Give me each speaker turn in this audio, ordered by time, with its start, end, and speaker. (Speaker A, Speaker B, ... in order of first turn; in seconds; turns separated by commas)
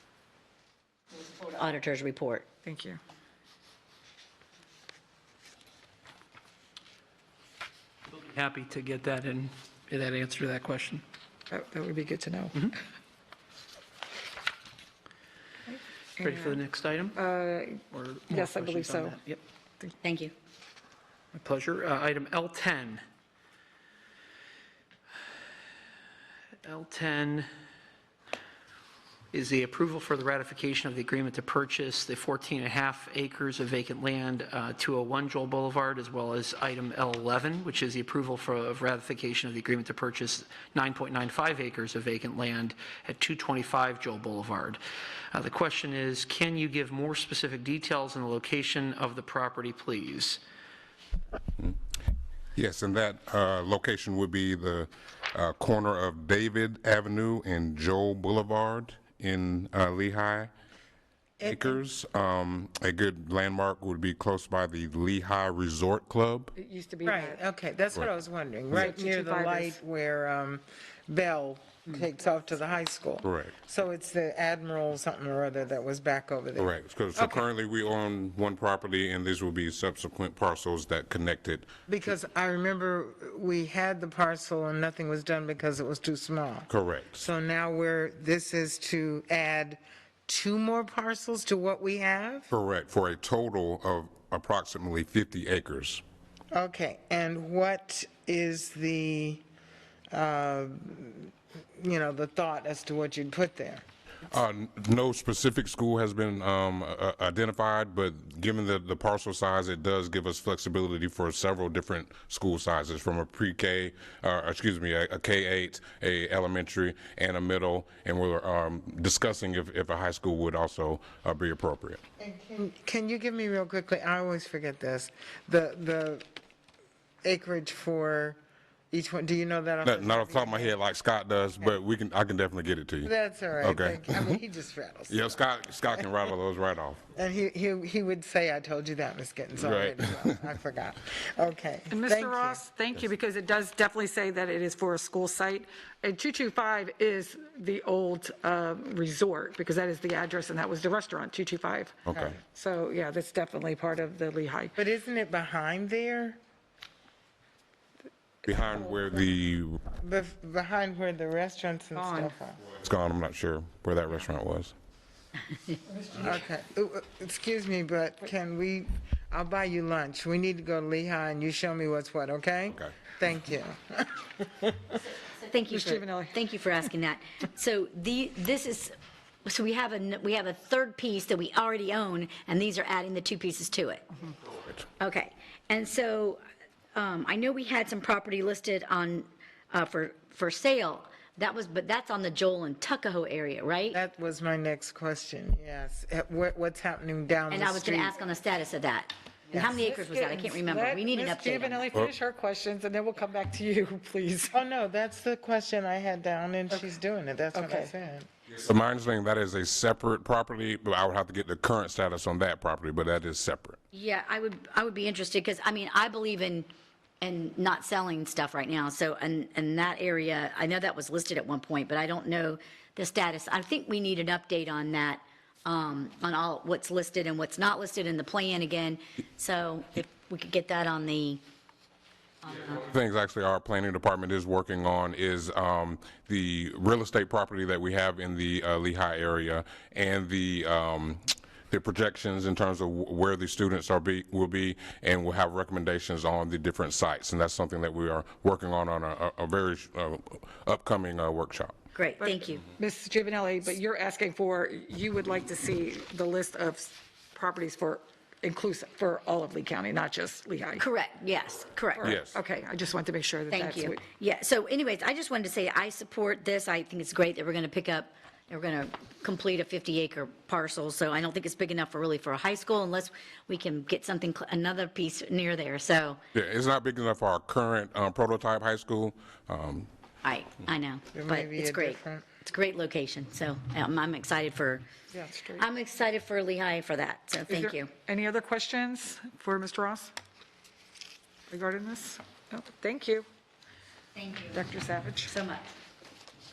Speaker A: 1.1-2.5, Speaker B: 2.6-3.0, Speaker C: 8.1-11.0, Speaker B: 11.5-12.8, Speaker B: 15.7-16.6, Speaker C: 16.2-17.2, Speaker B: 17.1-19.2, Speaker C: 17.9-19.4, Speaker A: 20.0-20.3, Speaker C: 21.3-23.0, Speaker C: 26.6-27.5, Speaker C: 29.3-44.8, Speaker C: 45.3-50.4, Speaker D: 52.5-60.5, Speaker E: 61.4-61.8, Speaker D: 61.5-66.5, Speaker B: 66.5-67.4, Speaker E: 67.0-77.5, Speaker B: 68.8-69.8, Speaker D: 73.2-73.5, Speaker D: 76.6-81.7, Speaker E: 81.9-92.5, Speaker D: 86.7-87.3, Speaker D: 92.5-96.0, Speaker E: 96.5-99.4, Speaker E: 100.1-103.8, Speaker D: 104.3-122.0, Speaker E: 122.2-126.2, Speaker E: 127.2-128.4, Speaker E: 128.9-130.8, Speaker D: 129.8-134.4, Speaker E: 133.0-135.4, Speaker D: 135.1-137.1, Speaker E: 137.2-142.6, Speaker D: 139.6-140.3, Speaker B: 141.9-154.8, Speaker D: 152.1-152.3, Speaker E: 152.1-152.4, Speaker E: 154.8-156.4, Speaker D: 158.4-159.8, Speaker E: 160.0-162.6, Speaker B: 161.9-162.3, Speaker D: 162.7-164.7, Speaker B: 165.9-166.5, Speaker E: 166.1-174.8, Speaker A: 175.1-178.9, Speaker B: 175.7-176.4, Speaker A: 179.4-184.1, Speaker A: 185.0-186.4, Speaker A: 186.9-194.0, Speaker E: 193.9-198.2, Speaker A: 197.5-201.9, Speaker E: 199.5-199.8, Speaker B: 199.8-204.6, Speaker E: 204.5-208.3, Speaker B: 207.5-207.9, Speaker D: 208.5-213.8, Speaker A: 213.9-216.7, Speaker A: 217.2-231.4, Speaker D: 232.5-251.8, Speaker A: 251.9-252.7, Speaker B: 252.2-260.9, Speaker A: 260.8-262.1, Speaker B: 262.0-264.0, Speaker D: 262.0-262.4, Speaker A: 263.5-276.2, Speaker D: 276.3-279.9, Speaker A: 280.2-284.9, Speaker E: 281.1-282.2, Speaker B: 285.1-285.6, Speaker A: 285.6-287.9, Speaker B: 287.5-290.1, Speaker B: 291.5-293.3, Speaker A: 294.1-294.6, Speaker B: 294.5-295.3, Speaker A: 295.2-295.7